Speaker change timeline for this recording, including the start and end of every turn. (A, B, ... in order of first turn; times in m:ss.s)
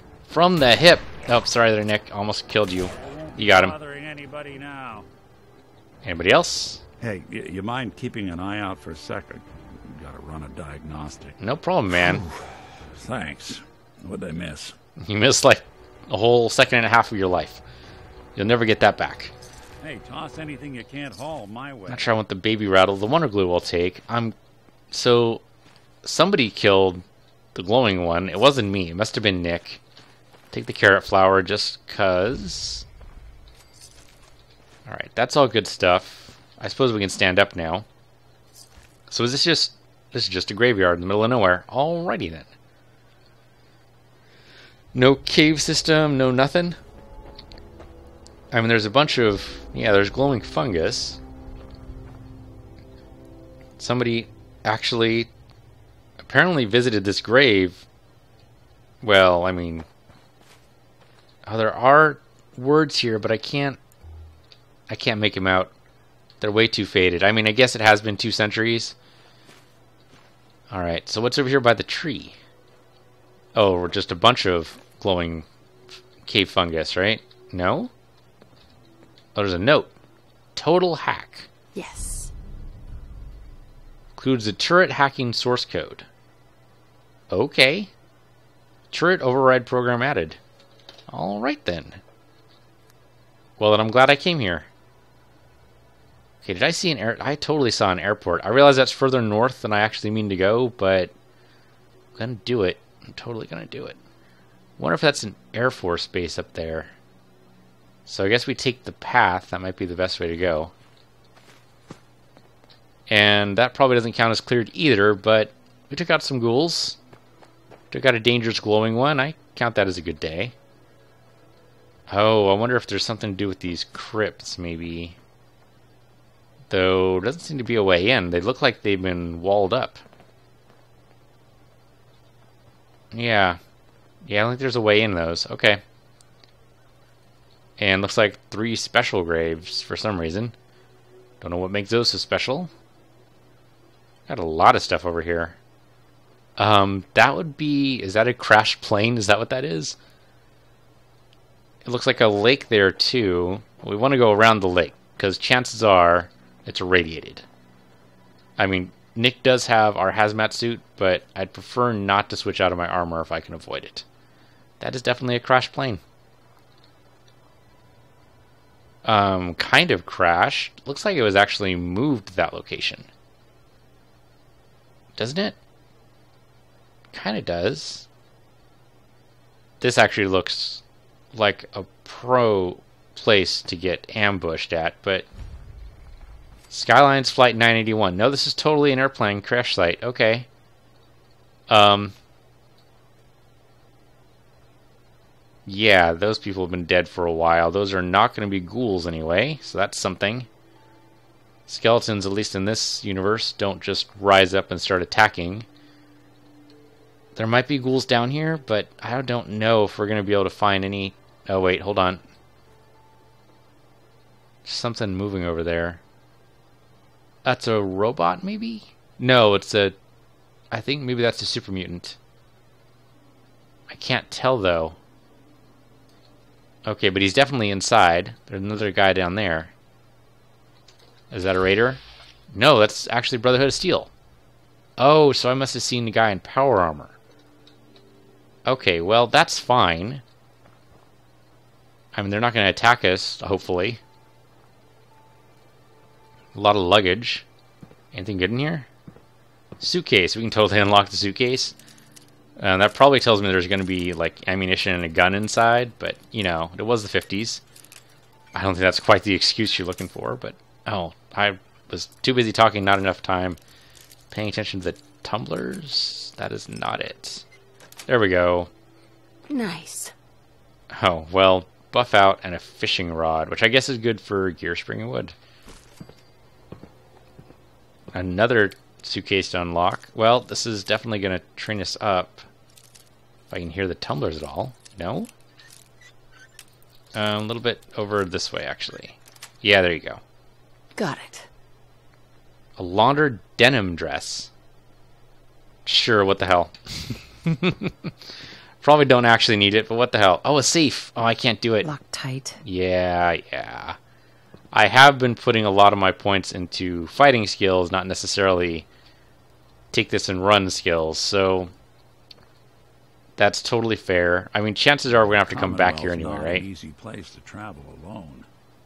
0:00.3-0:03.8 A
0:03.0-0:05.1 B
0:06.0-0:06.8 A
0:07.0-0:11.4 B
0:11.4-0:12.2 A
0:12.0-0:14.8 B
0:15.0-0:17.6 A
0:18.4-0:19.3 A
0:19.8-0:22.1 B
0:21.9-0:24.3 A
0:24.9-0:25.4 A
0:26.0-0:29.8 A
0:30.5-0:32.8 A
0:34.8-0:37.8 A
0:39.1-0:42.5 A
0:44.9-0:46.8 A
0:48.5-0:51.2 A
0:53.8-0:55.3 A
0:56.2-0:57.8 A
0:59.0-0:59.9 A
1:01.4-1:03.8 A
1:04.9-1:05.7 A
1:06.4-1:09.0 A
1:10.7-1:12.4 A
1:13.5-1:15.4 A
1:16.2-1:17.9 A
1:19.3-1:19.9 A
1:20.5-1:21.5 A
1:21.7-1:22.3 C
1:24.1-1:26.1 A
1:27.3-1:27.9 A
1:28.9-1:30.4 A
1:31.1-1:32.0 A
1:33.6-1:34.7 A
1:36.4-1:41.1 A
1:42.1-1:44.0 A
1:44.8-1:46.9 A
1:48.0-1:50.7 A
1:53.1-1:57.0 A
1:57.9-2:00.5 A
2:02.1-2:05.2 A
2:06.7-2:10.0 A
2:13.1-2:13.6 A
2:14.2-2:15.8 A
2:17.8-2:20.5 A
2:21.4-2:22.7 A
2:24.3-2:25.6 A
2:26.6-2:30.0 A
2:31.8-2:37.4 A
2:38.6-2:44.0 A
2:44.8-2:46.0 A
2:49.0-2:53.1 A
2:55.2-2:55.6 A
2:57.1-2:58.0 A
2:59.8-3:05.3 A
3:06.7-3:10.5 A
3:11.7-3:12.1 A
3:15.6-3:20.5 A
3:21.7-3:25.7 A
3:27.3-3:32.2 A
3:34.6-3:36.0 A
3:37.4-3:39.9 A
3:40.7-3:42.2 A
3:43.9-3:45.0 A
3:46.8-3:49.7 A
3:51.3-3:52.0 A
3:52.5-3:54.1 A
3:55.0-3:57.2 A
3:58.6-4:00.2 A
4:02.1-4:04.0 A
4:06.5-4:07.4 A
4:08.1-4:08.9 A
4:09.8-4:11.8 A
4:12.6-4:17.6 A
4:18.5-4:23.6 A
4:24.3-4:27.4 A
4:28.1-4:28.7 A
4:29.5-4:30.1 C
4:30.9-4:35.3 A
4:38.1-4:42.4 A
4:43.5-4:45.3 A
4:47.1-4:50.2 A
4:51.0-4:51.5 C
4:52.8-4:54.5 A
4:55.8-4:58.1 A
4:58.8-5:01.9 A
5:01.8-5:02.6 C
5:02.6-5:04.0 A
5:04.7-5:08.8 A
5:09.9-5:11.7 A
5:13.4-5:16.6 A
5:15.5-5:18.5 B